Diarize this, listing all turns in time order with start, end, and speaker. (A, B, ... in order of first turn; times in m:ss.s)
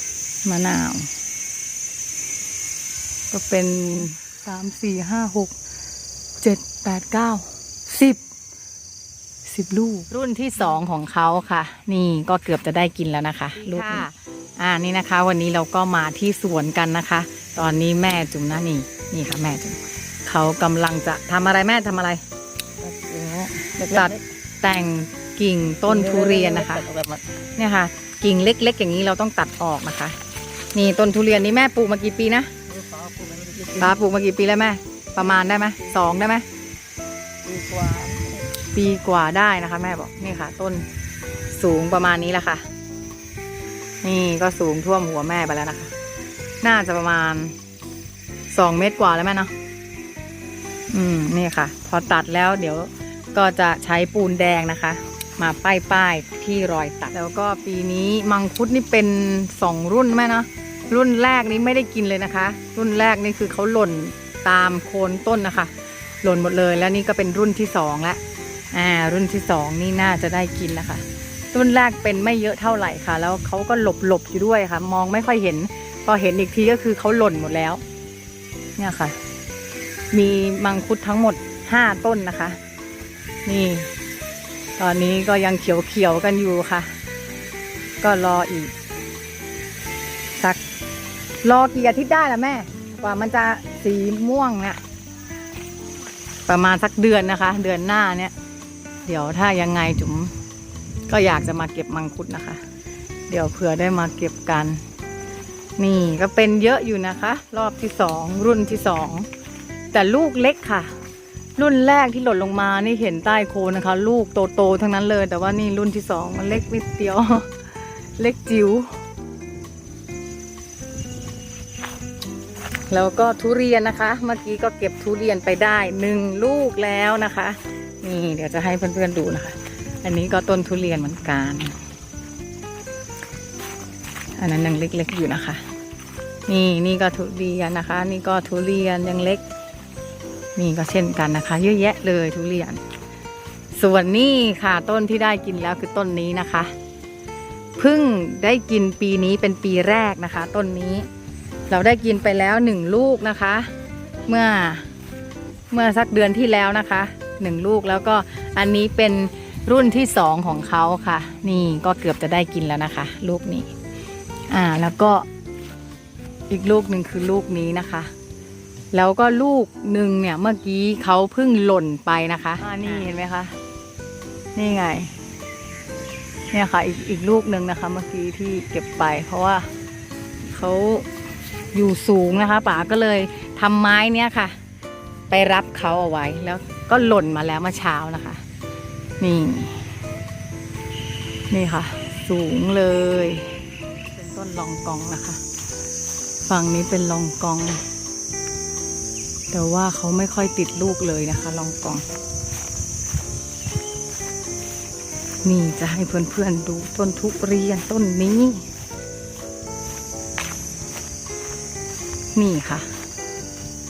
0:00.4-0:01.1 A
0:03.3-0:05.5 A
0:06.4-0:08.2 A
0:09.5-0:22.2 A
0:22.8-0:24.1 B
0:23.8-0:26.9 A
0:25.9-0:27.2 B
0:27.6-0:30.2 A
0:30.7-0:32.6 A
0:32.8-0:33.9 B
0:33.8-0:36.4 A
0:37.4-0:38.4 B
0:38.7-0:40.9 A
0:41.5-0:42.7 A
0:44.0-0:45.9 A
0:46.6-0:47.6 A
0:48.5-0:49.5 A
0:50.9-1:05.7 A
1:06.2-1:17.8 A
1:18.8-1:19.2 A
1:20.1-1:22.6 A
1:23.4-1:23.9 A
1:24.8-1:26.9 A
1:28.0-1:28.7 A
1:31.4-1:34.8 A
1:36.4-1:38.3 A
1:39.0-1:40.3 A
1:41.1-1:42.6 A
1:43.3-1:44.8 A
1:45.8-1:49.3 A
1:49.9-1:50.9 A
1:51.6-1:57.5 A
1:58.2-1:58.9 A
2:02.9-2:11.8 A
2:14.4-2:15.6 A
2:16.5-2:19.4 A
2:20.6-2:22.8 A
2:23.8-2:26.7 A
2:27.8-2:31.1 A
2:31.7-2:33.7 A
2:34.3-2:34.9 A
2:35.7-2:43.7 A
2:44.5-2:45.2 A
2:46.5-2:48.1 A
2:48.9-2:53.6 A
2:54.6-2:55.1 A
2:56.5-2:59.7 A
3:00.4-3:01.1 A
3:01.7-3:04.5 A
3:05.3-3:08.4 A
3:09.2-3:09.9 A
3:11.5-3:13.6 A
3:14.1-3:15.4 A
3:16.5-3:17.8 A
3:19.5-3:22.0 A
3:25.4-3:28.6 A
3:32.3-3:32.9 A